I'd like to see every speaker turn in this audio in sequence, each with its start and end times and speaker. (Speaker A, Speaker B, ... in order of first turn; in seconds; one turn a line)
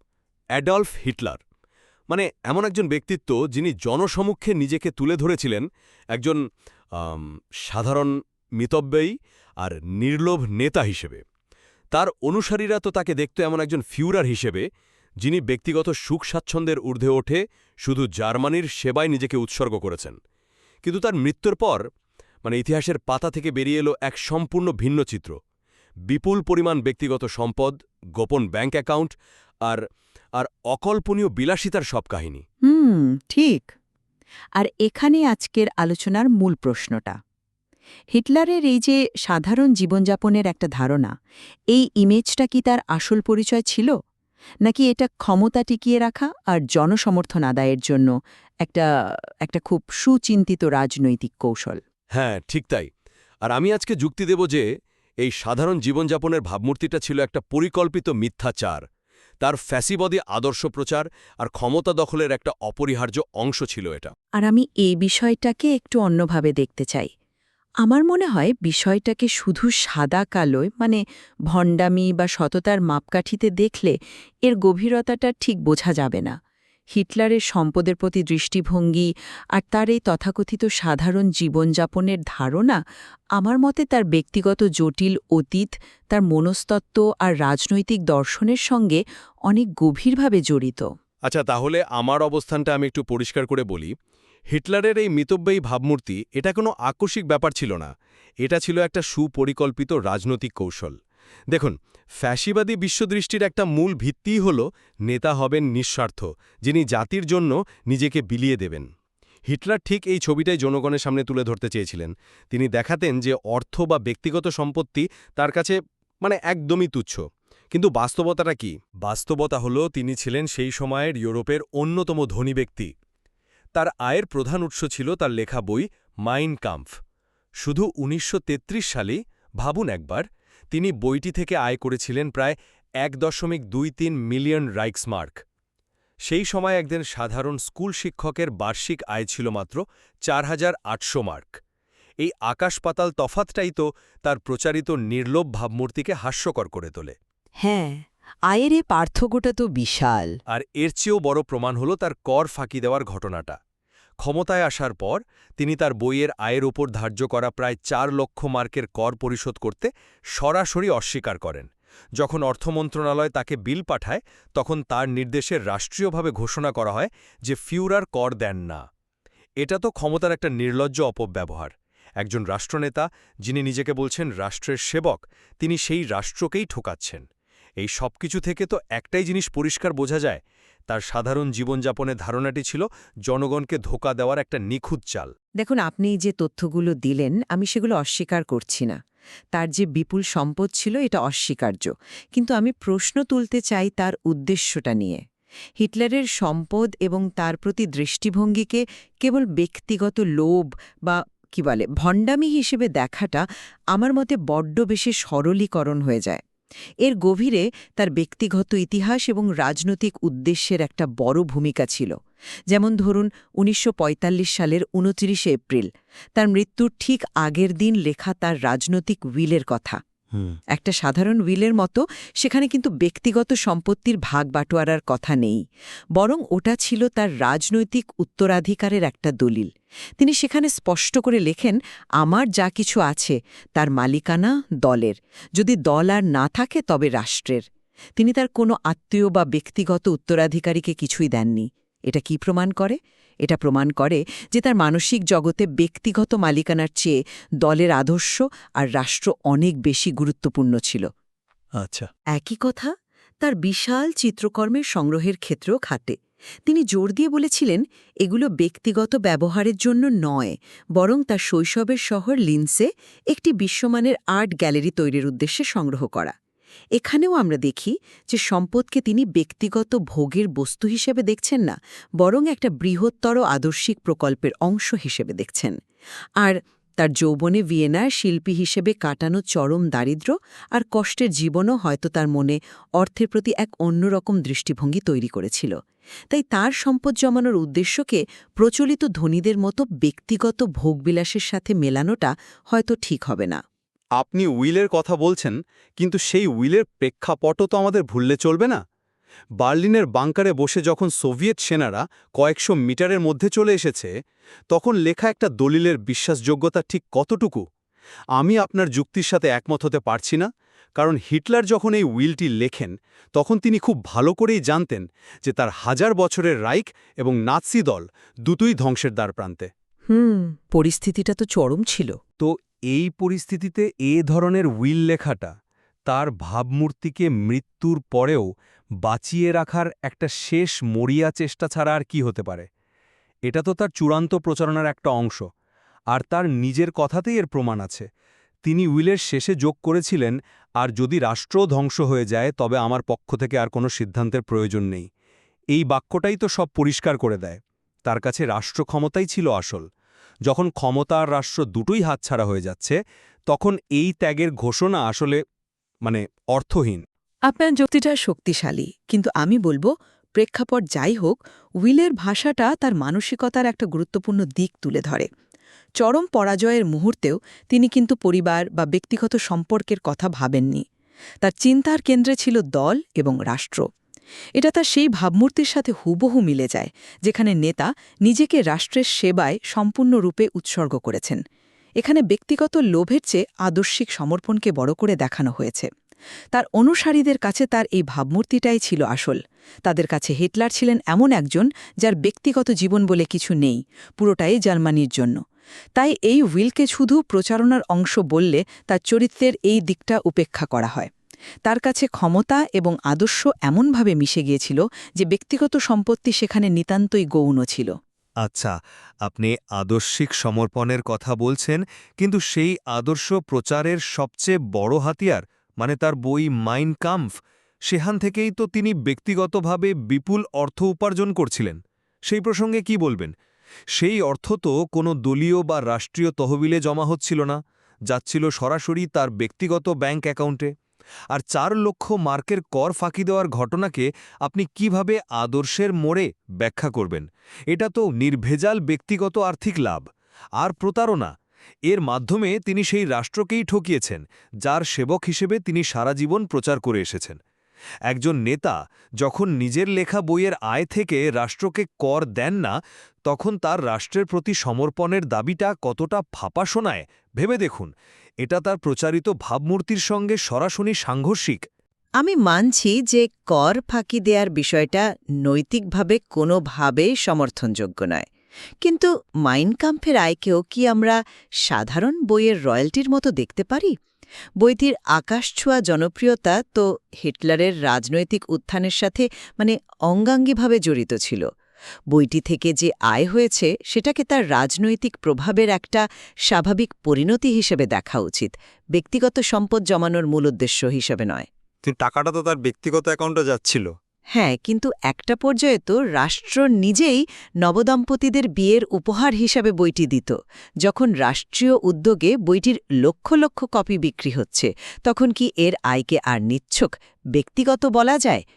Speaker A: 0.5-1.4
Speaker A: 2.1-6.4
Speaker A: 7.0-11.2
Speaker A: 11.9-14.6
Speaker A: 15.2-20.1
Speaker A: 20.8-21.8
Speaker A: 22.4-25.4
Speaker A: 26.1-29.8
Speaker A: 30.3-32.4
Speaker B: 32.6-33.7
Speaker B: 34.5-37.1
Speaker B: 38.1-41.1
Speaker B: 41.7-43.9
Speaker B: 44.6-48.1
Speaker B: 48.6-51.8
Speaker A: 52.1-52.9
Speaker A: 53.5-54.7
Speaker A: 55.2-58.8
Speaker A: 59.4-64.1
Speaker B: 64.4-67.1
Speaker B: 67.8-76.3
Speaker B: 76.9-82.8
Speaker B: 83.4-90.8
Speaker A: 91.3-93.9
Speaker A: 94.5-97.9
Speaker A: 98.4-101.0
Speaker A: 101.5-108.9
Speaker A: 109.5-122.9
Speaker A: 123.7-126.9
Speaker A: 127.6-135.4
Speaker A: 136.2-141.6
Speaker A: 142.2-147.2
Speaker B: 147.6-150.3
Speaker A: 150.5-153.6
Speaker A: 154.2-168.8
Speaker A: 169.6-177.2
Speaker A: 177.8-185.3
Speaker B: 185.6-188.9
Speaker B: 189.5-195.2
Speaker B: 195.8-206.4
Speaker B: 207.0-212.1
Speaker B: 212.7-220.0
Speaker B: 220.7-225.6
Speaker B: 226.1-229.7
Speaker B: 230.2-237.6
Speaker B: 238.2-251.1
Speaker A: 251.8-252.1
Speaker B: 252.3-266.3
Speaker B: 266.9-275.7
Speaker B: 276.4-285.7
Speaker B: 286.3-293.6
Speaker A: 294.2-298.8
Speaker A: 299.6-304.1
Speaker A: 304.7-307.6
Speaker A: 308.4-319.7
Speaker B: 320.1-322.1
Speaker A: 322.4-325.5
Speaker A: 326.1-328.5
Speaker A: 329.0-332.6
Speaker A: 333.5-335.4
Speaker A: 336.1-338.1
Speaker A: 338.6-345.1
Speaker A: 345.7-349.8
Speaker A: 350.4-353.0
Speaker A: 353.5-355.4
Speaker A: 356.0-357.0
Speaker B: 357.5-365.3
Speaker B: 366.0-370.8
Speaker B: 371.4-373.8
Speaker B: 374.6-381.4
Speaker B: 382.0-385.9
Speaker B: 386.5-395.4
Speaker B: 396.0-401.1
Speaker B: 401.6-407.9
Speaker A: 408.4-417.3
Speaker A: 417.9-423.3
Speaker A: 423.9-427.6
Speaker A: 428.1-430.7
Speaker A: 431.3-440.0
Speaker A: 440.6-441.3
Speaker A: 441.9-447.4
Speaker A: 448.1-452.7
Speaker A: 453.3-457.9
Speaker A: 458.4-461.6
Speaker B: 462.2-468.2
Speaker B: 468.8-471.1
Speaker B: 471.7-473.9
Speaker B: 474.6-481.4
Speaker B: 482.1-491.4
Speaker A: 491.9-493.9
Speaker B: 494.3-508.4